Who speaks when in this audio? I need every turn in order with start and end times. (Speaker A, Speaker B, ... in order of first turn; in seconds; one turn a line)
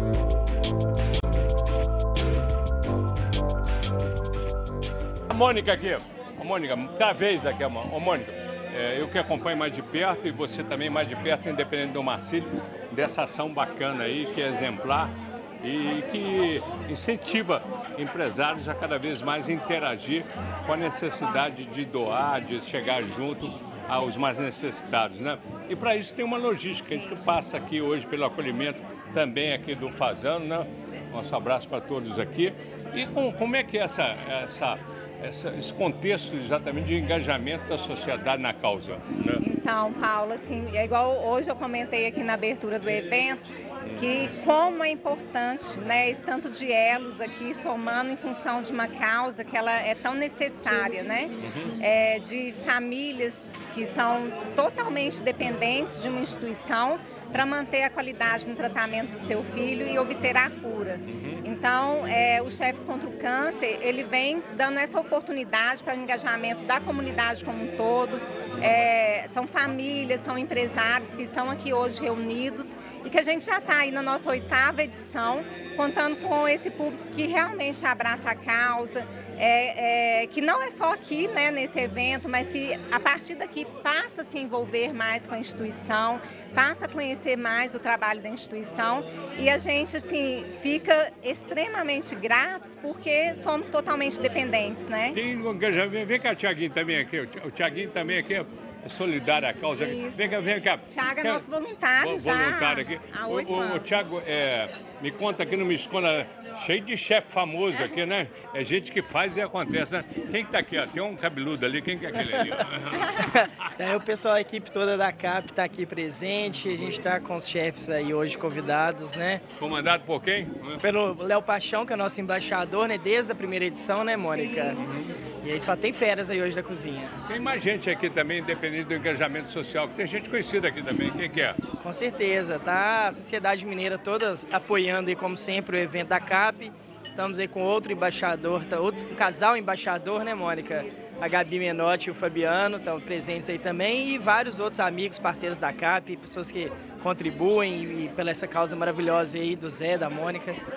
Speaker A: 5.3-39.4
Speaker B: 39.4-95.2
Speaker A: 51.4-51.7
Speaker A: 61.1-61.4
Speaker A: 95.1-101.4
Speaker B: 99.8-100.3
Speaker B: 100.9-103.9
Speaker A: 102.0-113.3
Speaker C: 113.1-119.4
Speaker A: 119.6-120.8
Speaker C: 120.8-124.8
Speaker B: 124.3-124.8
Speaker A: 124.8-125.1
Speaker C: 125.4-127.1
Speaker A: 127.3-131.6
Speaker C: 131.8-150.6